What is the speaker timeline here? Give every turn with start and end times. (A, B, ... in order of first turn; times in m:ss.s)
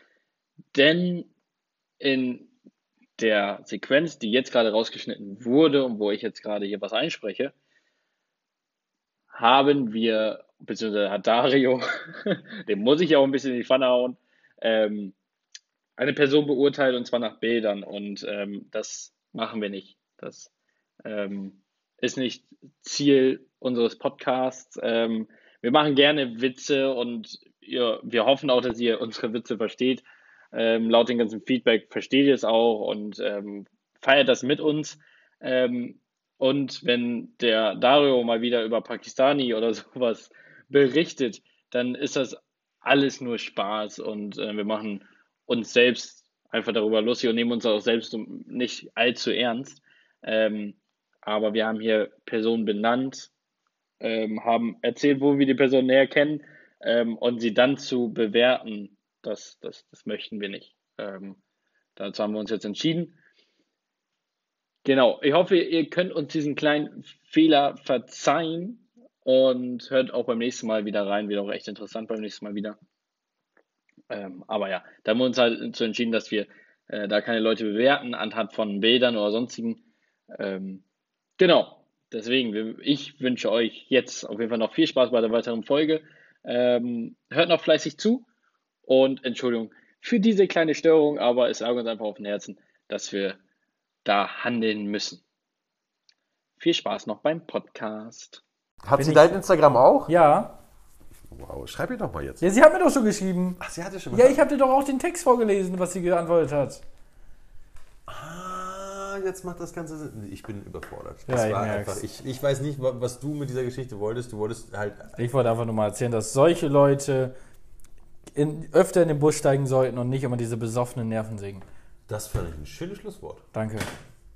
0:00.7-0:01.3 A
0:02.0-0:02.5 A
0:03.2-0:07.5 A
0:09.3-0:15.1 A
0:16.0-0:20.5 A
0:21.0-0:53.3 A
0:54.0-1:01.4 A
1:02.0-1:03.1 A
1:04.8-1:12.8 A
1:14.1-1:19.8 A
1:20.3-1:20.8 A
1:21.4-1:28.2 A
1:28.8-1:33.4 A
1:34.0-1:35.2 A
1:36.6-1:38.4 A
1:38.8-1:40.1 B
1:39.0-1:39.3 C
1:40.1-1:40.6 C
1:41.3-1:42.4 B
1:42.4-1:43.6 C
1:43.6-1:44.4 B
1:44.1-1:46.8 C
1:48.1-1:55.2 B
1:51.3-1:52.0 C
1:55.2-1:57.3 C
1:58.3-2:01.6 C
2:02.1-2:03.4 B
2:03.5-2:03.9 C